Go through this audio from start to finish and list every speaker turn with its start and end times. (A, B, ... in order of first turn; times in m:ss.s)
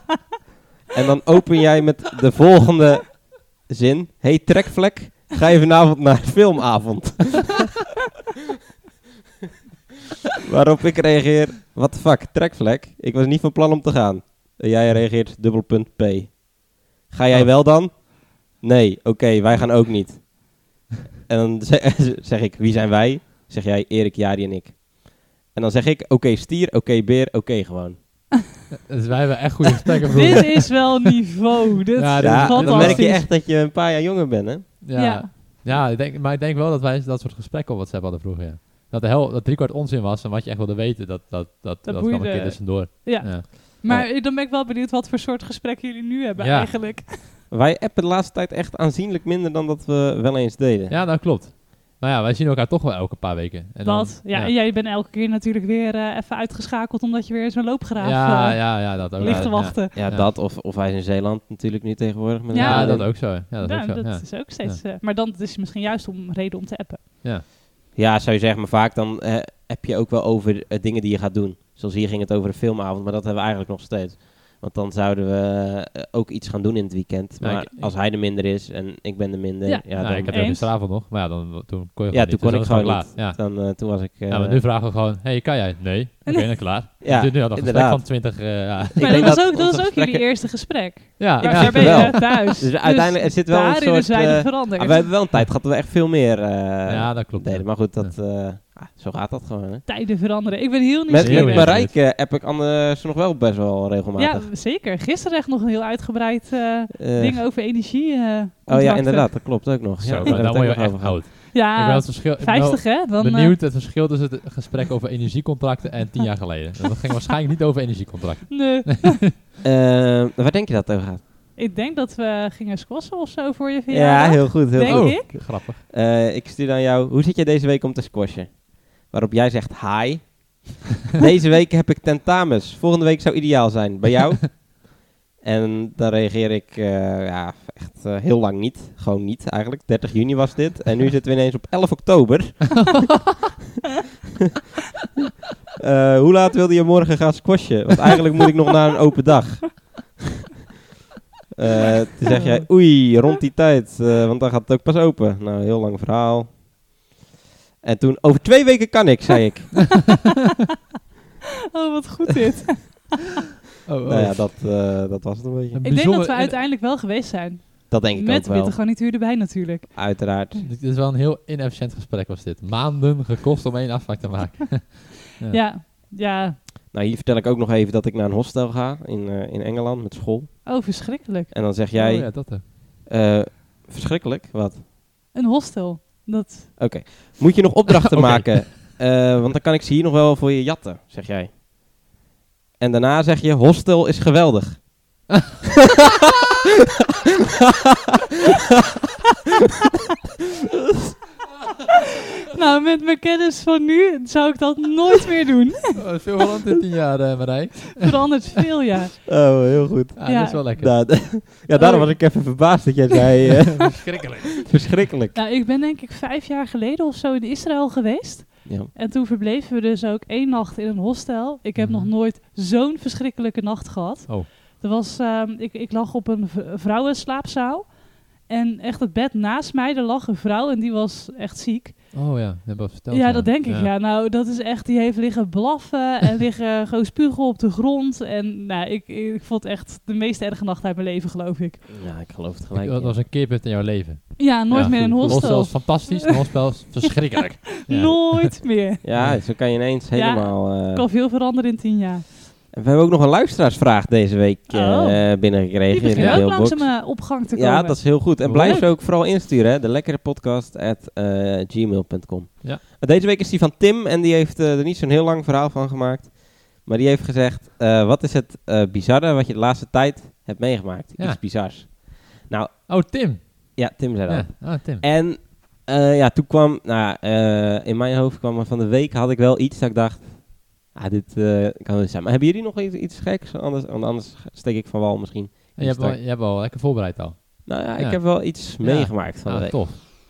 0:00.9-0:07.7 A
0:10.4-0:20.6 A
0:17.3-0:17.6 B
0:21.3-0:28.0 A
0:28.9-0:30.9 B
0:30.1-0:33.3 C
0:32.0-0:33.1 B
0:32.2-0:34.7 A
0:34.8-0:44.0 B
0:35.0-0:35.3 C
0:41.8-0:47.3 C
0:46.4-0:46.7 B
0:47.5-0:51.0 A
0:50.9-0:54.5 B
0:53.8-0:59.9 C
0:58.0-1:00.2 B
0:59.2-1:03.1 A
1:02.5-1:07.0 C
1:02.6-1:04.8 B
1:07.9-1:20.6 A
1:17.4-1:17.9 B
1:19.6-1:20.7 C
1:20.0-1:29.4 B
1:22.1-1:24.6 A
1:26.2-1:26.6 C
1:27.0-1:28.4 A
1:28.9-1:30.4 A
1:29.0-1:35.1 C
1:31.2-1:32.5 B
1:31.4-1:39.8 A
1:36.9-1:38.2 B
1:39.9-1:41.7 C
1:41.1-1:44.5 A
1:41.2-1:41.9 B
1:44.2-1:49.7 C
1:46.9-1:47.4 A
1:48.7-1:51.2 A
1:50.0-1:59.3 B
1:51.5-1:53.6 C
1:58.5-1:59.2 C
1:59.6-2:01.2 A
2:01.6-2:05.3 C
2:03.9-2:23.1 A
2:04.8-2:05.8 B
2:25.8-2:30.2 A
2:31.5-2:36.6 A
2:32.4-2:33.0 C
2:37.8-2:40.1 A
2:41.7-2:43.1 C
2:43.8-2:44.6 B
2:44.0-2:45.8 A
2:45.7-2:46.6 B
2:45.8-2:50.4 C
2:47.9-2:48.8 A
2:49.9-2:50.6 A
2:50.6-2:55.6 B
2:55.5-2:56.6 C
2:56.9-3:00.8 A
3:00.6-3:01.5 C
3:01.5-3:04.8 A
3:01.9-3:02.6 B
3:05.3-3:06.9 C
3:06.8-3:11.5 A
3:08.1-3:08.7 B
3:12.8-3:15.2 A
3:22.5-3:26.2 C
3:26.0-3:28.4 B
3:28.0-3:29.3 C
3:29.3-3:34.0 A
3:30.2-3:31.1 B
3:30.2-3:30.6 C
3:31.7-3:32.8 C
3:33.8-3:34.7 B
3:34.6-3:35.4 A
3:35.3-3:52.3 C
3:38.6-3:38.9 A
3:41.8-3:42.1 B
3:52.1-3:53.9 B
3:53.1-4:01.8 C
4:01.9-4:03.2 A
4:02.7-4:08.6 B
4:04.4-4:06.2 C
4:05.2-4:05.7 A
4:07.6-4:09.3 C
4:09.0-4:11.0 A
4:09.1-4:09.4 B
4:10.1-4:12.2 C
4:12.7-4:46.2 A
4:14.7-4:18.9 C
4:16.2-4:16.5 B
4:18.4-4:18.8 B
4:31.2-4:31.4 B
4:32.9-4:35.0 B
4:45.8-4:50.0 B
4:47.6-4:49.8 A